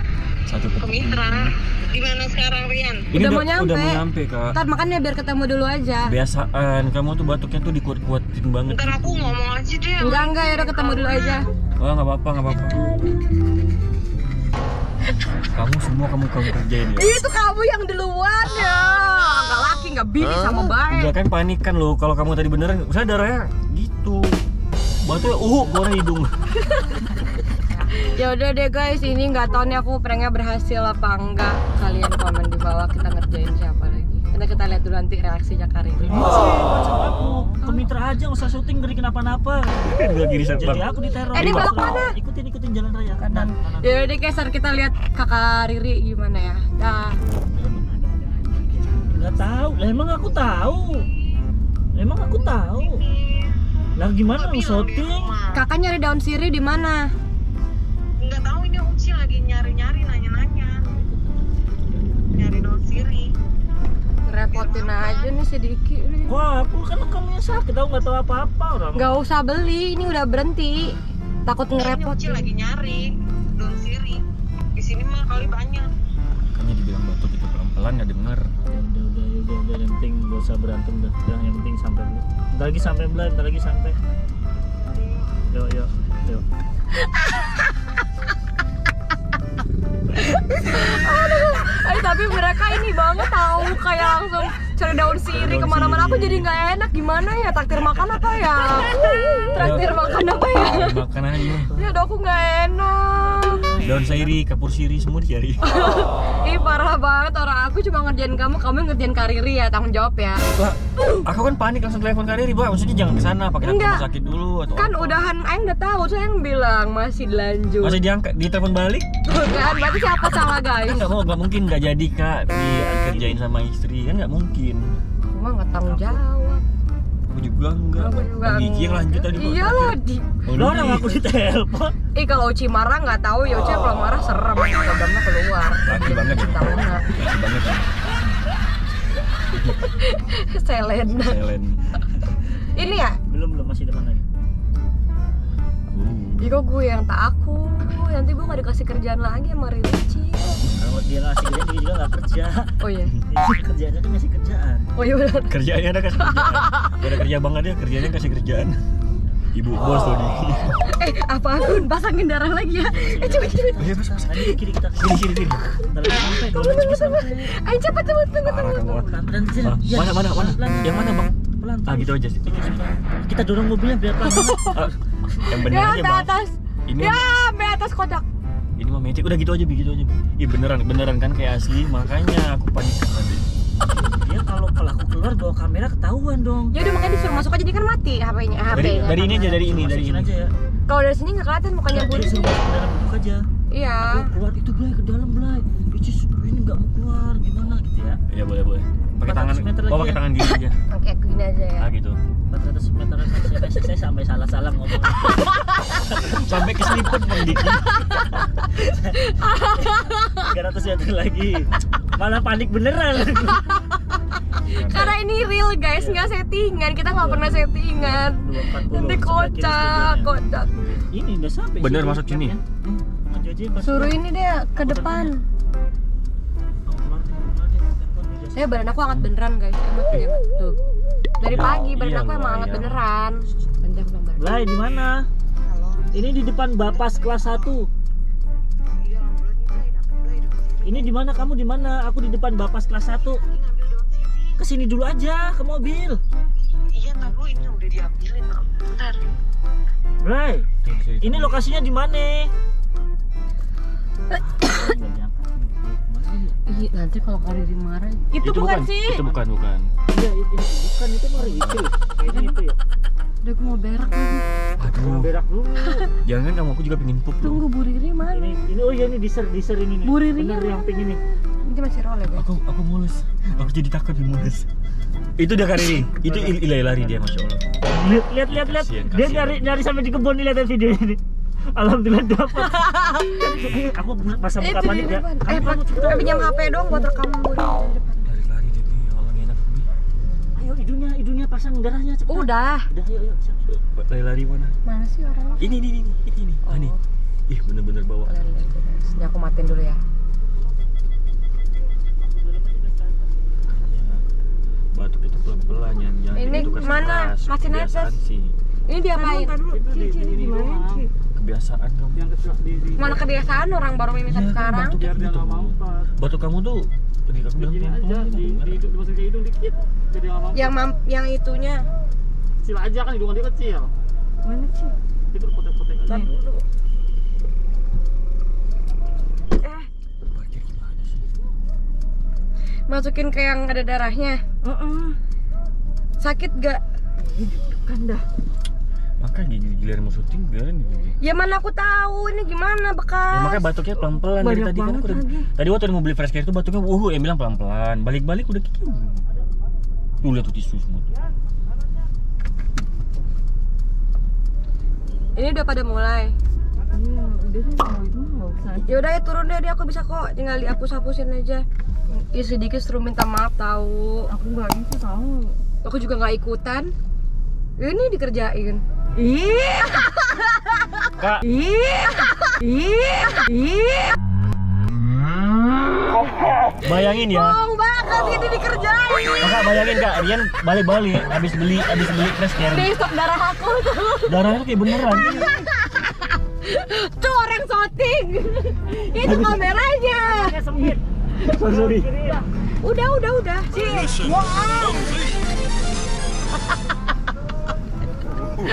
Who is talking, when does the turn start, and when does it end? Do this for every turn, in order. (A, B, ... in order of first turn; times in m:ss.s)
0:00.5-0:01.5 A
0:00.8-0:03.1 B
0:03.1-0:04.6 A
0:03.1-0:06.1 C
0:06.1-0:09.4 A
0:08.7-0:11.4 B
0:10.0-0:11.5 C
0:11.8-0:12.9 A
0:15.5-0:17.1 A
0:17.0-0:21.1 C
0:20.9-0:24.4 A
0:25.0-0:26.3 A
0:26.6-0:27.0 C
0:27.6-0:36.3 C
0:31.7-0:32.2 A
0:36.0-0:40.0 D
0:37.6-0:37.9 C
0:39.8-0:41.8 A
0:40.5-0:44.1 D
0:41.3-0:42.2 C
0:43.2-0:47.2 C
0:47.5-0:51.1 D
0:52.0-0:53.0 D
0:52.8-0:53.6 B
0:54.0-0:55.4 D
0:54.2-0:55.6 B
0:55.5-0:57.1 C
0:58.2-1:00.8 B
1:00.9-1:02.3 D
1:02.3-1:03.3 B
1:04.2-1:06.4 C
1:04.5-1:05.3 B
1:06.3-1:09.2 D
1:09.0-1:12.5 C
1:11.7-1:14.2 B
1:14.8-1:15.9 B
1:16.6-1:18.5 A
1:18.7-1:24.0 D
1:25.5-1:26.4 D
1:30.2-1:41.0 C
1:35.2-1:36.5 A
1:38.7-1:39.5 D
1:39.6-1:41.7 A
1:41.7-1:42.0 D
1:41.8-1:43.7 C
1:43.2-1:44.3 D
1:43.8-1:45.6 A
1:45.6-1:50.4 C
1:50.6-1:55.2 A
1:53.6-1:54.1 C
1:54.8-1:58.0 C
1:57.8-1:59.1 A
1:59.3-2:01.1 C
2:00.8-2:04.9 A
2:02.5-2:03.4 D
2:05.2-2:06.6 C
2:05.8-2:06.2 D
2:07.3-2:11.2 A
2:08.0-2:10.4 C
2:10.5-2:12.0 D
2:12.1-2:17.1 C
2:15.9-2:17.9 A
2:19.5-2:19.8 A
2:19.8-2:21.4 C
2:21.2-2:21.8 A
2:22.7-2:23.2 C
2:23.3-2:24.2 D
2:25.9-2:26.6 A
2:26.4-2:30.6 C
2:30.8-2:32.8 D
2:32.8-2:33.2 C
2:33.3-2:34.9 D
2:35.0-2:35.6 C
2:35.5-2:38.8 A
2:36.2-2:37.0 C
2:39.5-2:40.8 A
2:40.8-2:43.8 C
2:42.8-2:47.5 D
2:43.8-2:45.7 A
2:46.0-2:49.2 C
2:48.4-2:49.1 A
2:49.1-2:54.9 D
2:49.6-2:51.3 A
2:51.8-2:52.8 A
2:54.3-2:54.7 C
2:54.6-2:54.9 A
2:55.4-2:56.3 A
2:55.5-2:58.2 C
2:56.9-2:57.3 A
2:58.8-3:03.5 A
3:03.9-3:06.7 D
3:06.7-3:09.2 C
3:08.7-3:10.5 D
3:08.7-3:10.3 A
3:10.9-3:12.6 C
3:11.9-3:13.4 D
3:13.7-3:14.3 C
3:14.0-3:18.2 D
3:18.3-3:20.8 A
3:19.2-3:20.2 D
3:20.9-3:21.9 C
3:21.8-3:22.2 A
3:22.5-3:26.6 D
3:25.4-3:25.8 C
3:26.4-3:28.0 A
3:28.0-3:33.8 D
3:28.1-3:28.5 C
3:29.2-3:30.5 C
3:34.5-3:41.0 C
3:34.6-3:35.2 A
3:35.9-3:36.3 D
3:37.2-3:40.4 D
3:41.1-3:44.2 D
3:41.8-3:42.6 A
3:43.8-3:45.4 C
3:44.8-3:45.3 D
3:46.9-3:49.0 D
3:48.6-3:50.8 C
3:51.4-3:54.6 C
3:51.4-3:53.0 A
3:54.4-3:55.3 D
3:55.6-3:56.1 B
3:56.1-3:57.9 D
3:58.8-4:01.1 B
4:00.8-4:03.4 D
4:03.4-4:04.6 B
4:04.6-4:06.2 D
4:06.7-4:09.3 B
4:10.2-4:10.7 D
4:10.8-4:11.7 A
4:11.2-4:12.5 D
4:14.3-4:16.6 D
4:16.7-4:19.2 C
4:18.4-4:19.9 A
4:20.1-4:22.8 D
4:21.6-4:21.9 A
4:22.3-4:22.6 C
4:23.4-4:24.4 C
4:24.8-4:25.3 A
4:24.8-4:26.1 D
4:26.2-4:27.7 A
4:27.4-4:28.5 C
4:28.3-4:31.2 D
4:30.0-4:30.8 C
4:31.6-4:32.5 C
4:32.3-4:34.7 A
4:33.5-4:33.7 D
4:35.4-4:37.6 A
4:36.3-4:37.2 D
4:37.8-4:41.2 D
4:38.5-4:39.9 A
4:41.7-4:46.3 D
4:44.6-4:48.3 C
4:45.5-4:46.5 A
4:48.2-4:49.9 A
4:50.6-4:53.6 D
4:52.3-4:52.9 C
4:53.7-4:54.8 A
4:54.8-4:55.7 C
4:55.6-4:57.0 A
4:56.6-4:57.0 C
4:57.5-4:58.4 A
4:58.3-5:00.0 C
5:02.2-5:03.3 D
5:03.7-5:04.3 A
5:04.9-5:08.5 A
5:06.3-5:08.2 C
5:08.9-5:09.6 C
5:09.2-5:11.1 E
5:09.7-5:11.1 D
5:11.4-5:12.3 A
5:12.2-5:13.2 D
5:13.0-5:15.0 C
5:14.3-5:18.8 A
5:15.0-5:16.1 D
5:17.6-5:20.6 D
5:20.5-5:21.9 C
5:22.6-5:23.9 D
5:24.5-5:24.9 E
5:25.3-5:26.4 D
5:26.1-5:26.6 C
5:30.2-5:31.2 A
5:32.9-5:34.4 C
5:34.7-5:35.2 E
5:36.2-5:36.8 C
5:37.3-5:38.2 E
5:39.2-5:41.2 A
5:41.2-5:43.6 C
5:43.3-5:49.2 A
5:44.4-5:45.5 E
5:50.2-5:51.1 A
5:55.4-5:56.4 C
5:56.9-5:58.9 E
5:58.8-6:04.3 C
6:04.3-6:05.6 E
6:05.8-6:06.9 C
6:07.8-6:08.8 C
6:09.2-6:10.0 E
6:11.2-6:11.5 A
6:11.4-6:14.2 E
6:16.8-6:17.6 A
6:16.9-6:19.9 C
6:19.4-6:22.9 A
6:22.7-6:24.5 C
6:24.3-6:25.5 A
6:25.1-6:30.6 C
6:29.2-6:29.6 D
6:30.2-6:32.4 D
6:31.7-6:32.0 A
6:32.8-6:35.1 C
6:34.2-6:35.0 E